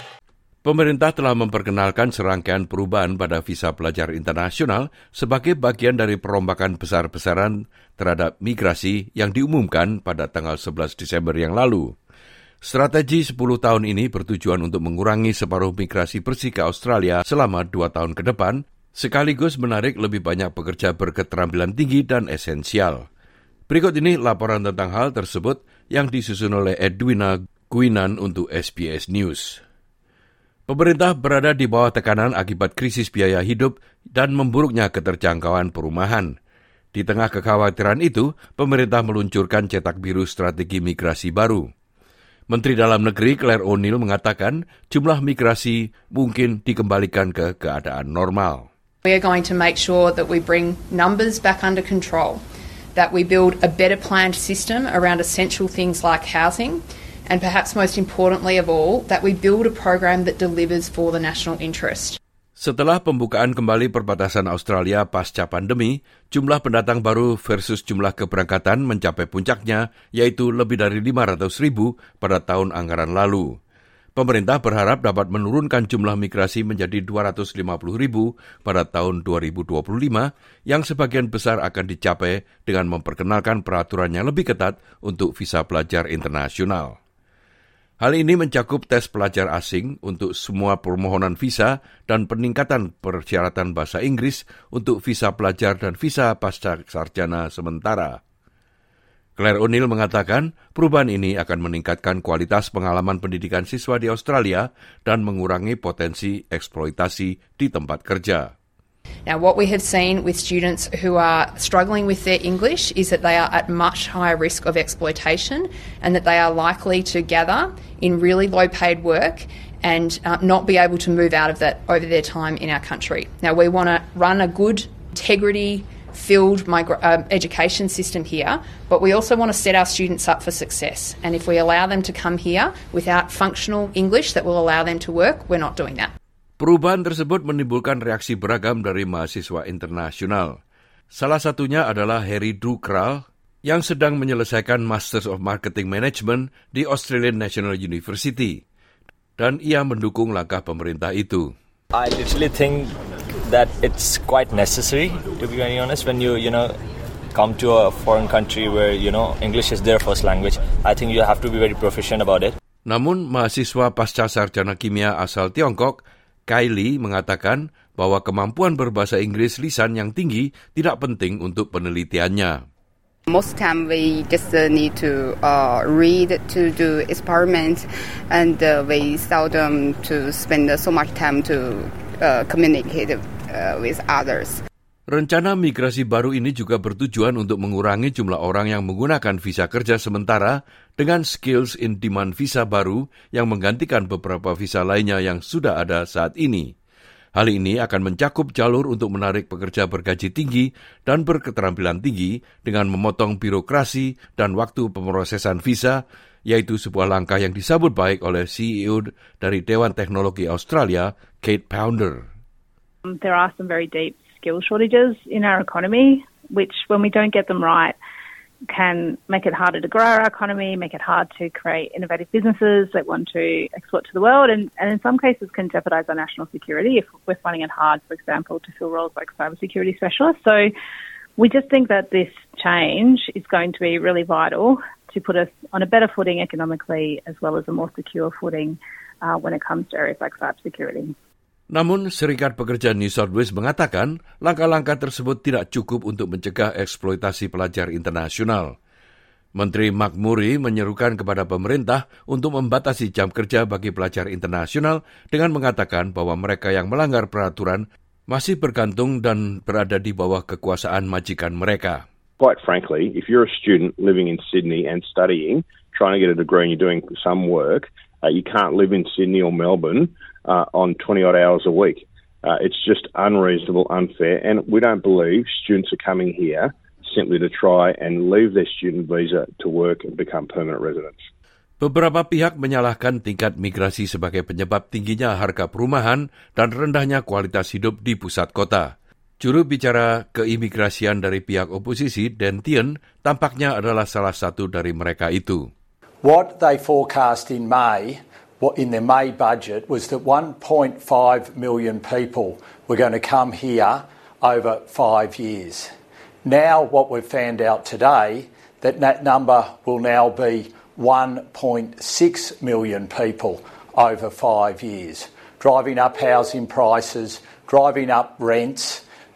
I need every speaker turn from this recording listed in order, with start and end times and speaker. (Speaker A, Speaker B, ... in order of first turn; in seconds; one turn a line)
Speaker A: 0.6-11.9
Speaker A: 12.6-23.1
Speaker A: 23.7-29.6
Speaker A: 30.7-36.3
Speaker A: 36.9-41.7
Speaker A: 42.5-48.7
Speaker B: 49.0-52.4
Speaker B: 53.0-62.2
Speaker A: 62.6-73.5
Speaker A: 74.2-87.0
Speaker A: 88.0-98.2
Speaker A: 99.4-108.5
Speaker B: 109.3-136.1
Speaker A: 136.6-140.6
Speaker A: 141.1-148.6
Speaker A: 149.4-151.5
Speaker C: 151.9-156.8
Speaker C: 157.3-162.6
Speaker A: 162.9-172.6
Speaker D: 173.3-184.6
Speaker A: 185.1-196.7
Speaker A: 197.4-212.3
Speaker E: 213.1-217.9
Speaker E: 218.7-230.7
Speaker E: 231.4-241.1
Speaker A: 241.7-248.8
Speaker A: 249.6-262.0
Speaker F: 262.4-281.2
Speaker A: 281.8-295.7
Speaker G: 296.2-305.9
Speaker G: 306.4-319.1